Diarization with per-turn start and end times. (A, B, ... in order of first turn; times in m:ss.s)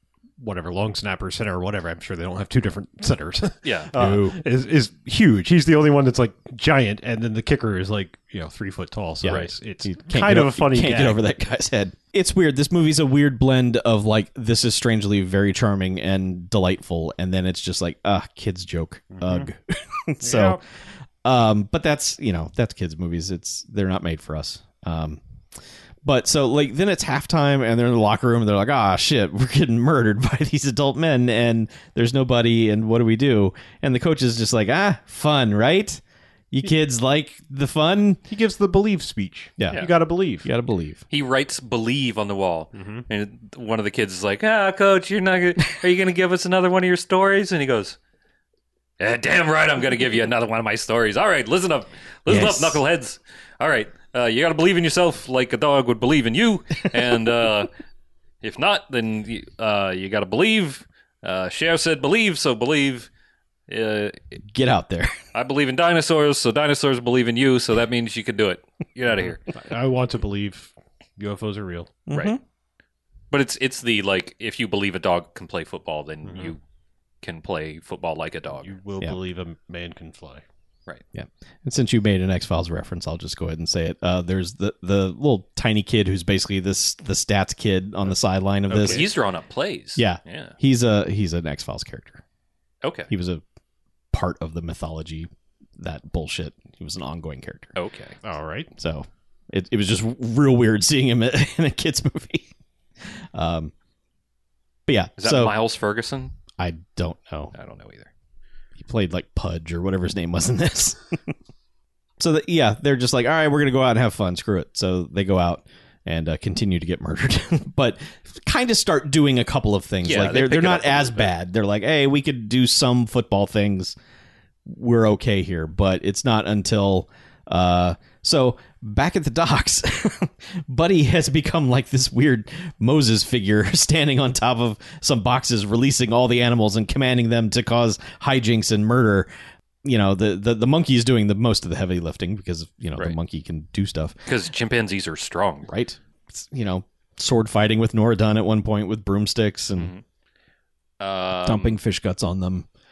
0:00.4-0:11.2 A
0:03.6-0:03.9 B
0:04.0-0:04.4 C
0:09.2-0:20.6 C
0:19.1-0:19.5 A
0:20.2-0:20.6 A
0:21.2-0:25.2 C
0:26.0-0:36.0 C
0:36.5-0:38.2 C
0:38.3-0:40.5 A
0:39.6-0:39.9 C
0:40.4-0:41.0 C
0:41.1-0:48.0 B
0:42.7-0:43.1 A
0:49.0-0:57.7 B
0:52.3-0:52.8 C
0:58.4-1:03.1 B
1:03.7-1:04.4 B
1:04.5-1:05.2 C
1:05.3-1:09.4 B
1:09.5-1:12.0 A
1:12.1-1:12.4 C
1:12.1-1:12.4 B
1:13.3-1:16.6 B
1:17.2-1:18.8 B
1:18.6-1:20.4 A
1:21.1-1:29.1 C
1:28.7-1:29.1 A
1:28.8-1:30.6 B
1:30.0-1:32.2 C
1:32.8-1:33.1 B
1:33.1-1:33.4 C
1:34.1-1:37.8 C
1:37.8-1:38.2 B
1:38.2-1:38.7 A
1:38.8-1:42.5 C
1:43.1-1:43.7 C
1:44.9-1:45.6 C
1:45.2-1:46.3 B
1:46.6-1:47.5 C
1:47.5-1:48.1 B
1:48.8-1:51.3 C
1:52.2-2:04.0 C
2:00.0-2:01.3 B
2:04.7-2:19.3 C
2:19.8-2:24.2 C
2:24.3-2:25.7 B
2:25.7-2:29.9 C
2:29.8-2:30.0 B
2:31.0-2:31.8 B
2:31.4-2:32.7 C